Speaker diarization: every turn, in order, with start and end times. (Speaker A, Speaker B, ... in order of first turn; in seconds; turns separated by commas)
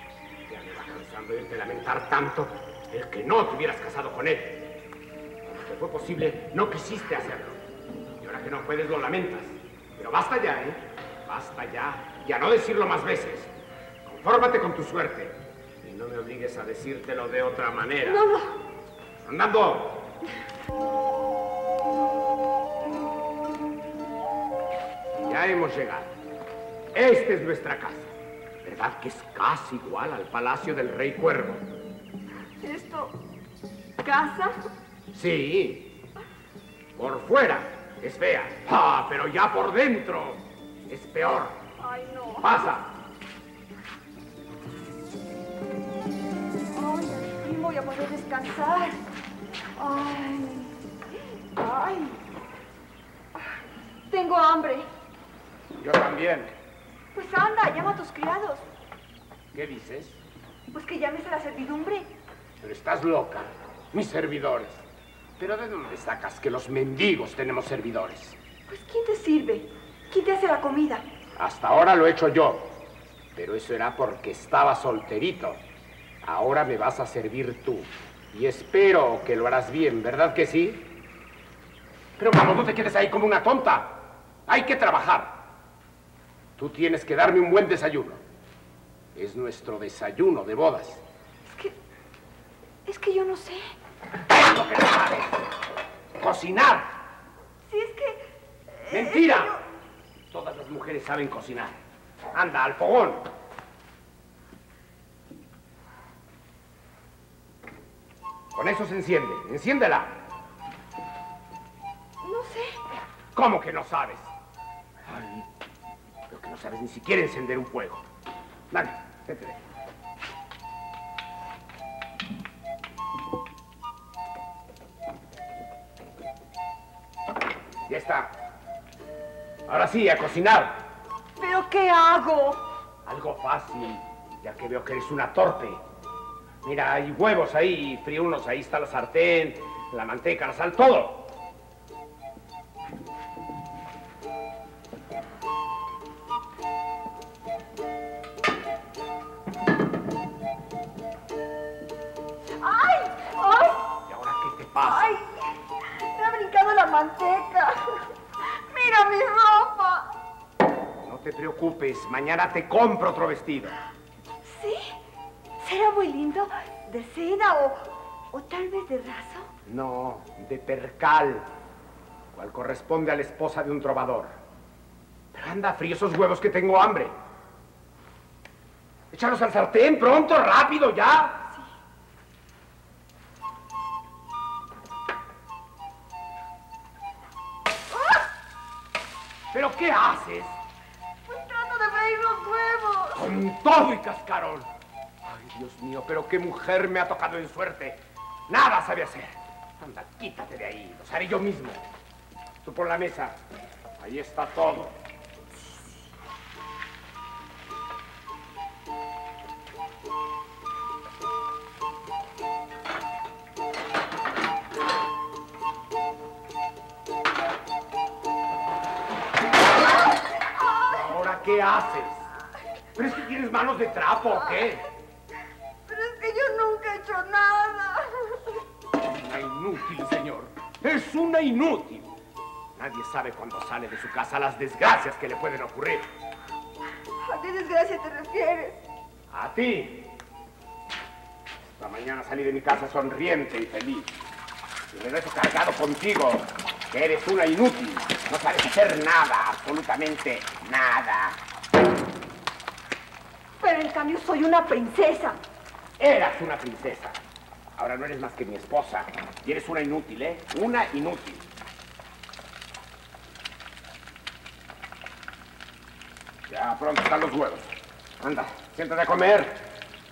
Speaker A: 0.5-4.7, Speaker A: 5.5-7.6, Speaker A: 8.2-13.5, Speaker A: 14.1-18.2, Speaker B: 18.1-18.6, Speaker A: 19.2-20.1, Speaker A: 25.2-26.1, Speaker A: 26.9-28.1, Speaker A: 28.6-31.6, Speaker B: 32.6-33.2, Speaker B: 34.0-34.6, Speaker A: 35.1-35.9, Speaker A: 36.9-41.6, Speaker B: 41.8-42.6, Speaker A: 42.4-42.9, Speaker B: 46.7-49.0, Speaker B: 49.8-50.8, Speaker B: 51.5-52.2, Speaker B: 54.1-54.9, Speaker A: 55.8-56.5, Speaker B: 57.1-58.6, Speaker A: 59.5-60.2, Speaker B: 60.7-62.1, Speaker A: 62.6-64.8, Speaker A: 65.4-68.4, Speaker B: 68.7-71.0, Speaker A: 71.4-72.7, Speaker A: 73.3-75.6, Speaker A: 76.2-80.8, Speaker A: 82.2-85.3, Speaker A: 86.6-88.2, Speaker A: 89.1-91.0, Speaker B: 91.4-91.7, Speaker B: 92.9-93.7, Speaker A: 94.3-95.4, Speaker A: 96.1-96.9, Speaker B: 97.7-99.6, Speaker A: 98.9-99.6, Speaker A: 100.3-101.8, Speaker A: 102.3-103.3, Speaker A: 108.5-110.1, Speaker B: 112.2-112.8, Speaker A: 113.3-114.3, Speaker A: 115.0-115.5, Speaker A: 116.3-118.0, Speaker A: 118.7-119.6, Speaker A: 127.9-128.3, Speaker A: 129.7-130.8, Speaker B: 131.4-132.6, Speaker A: 133.1-135.8, Speaker A: 136.6-141.3, Speaker B: 152.6-153.9, Speaker A: 154.1-155.1, Speaker B: 154.8-155.3, Speaker B: 156.0-160.2, Speaker A: 161.0-163.8, Speaker B: 164.4-164.9, Speaker B: 165.6-169.5, Speaker A: 169.7-171.5, Speaker A: 172.3-174.4, Speaker A: 175.3-177.1, Speaker A: 179.1-181.5, Speaker A: 189.5-190.6, Speaker B: 191.3-193.2, Speaker A: 193.2-194.7, Speaker A: 195.3-201.8, Speaker A: 202.6-203.4, Speaker A: 204.0-205.0, Speaker B: 220.4-221.0, Speaker A: 220.9-222.2, Speaker A: 222.9-224.9, Speaker B: 225.9-228.5, Speaker A: 229.0-232.1, Speaker A: 232.8-236.1, Speaker B: 237.2-238.8, Speaker A: 239.3-240.1, Speaker A: 241.7-244.2, Speaker A: 244.9-251.4, Speaker B: 253.6-255.4, Speaker A: 256.0-257.2, Speaker A: 257.8-261.4, Speaker A: 266.5-267.7, Speaker A: 268.2-269.6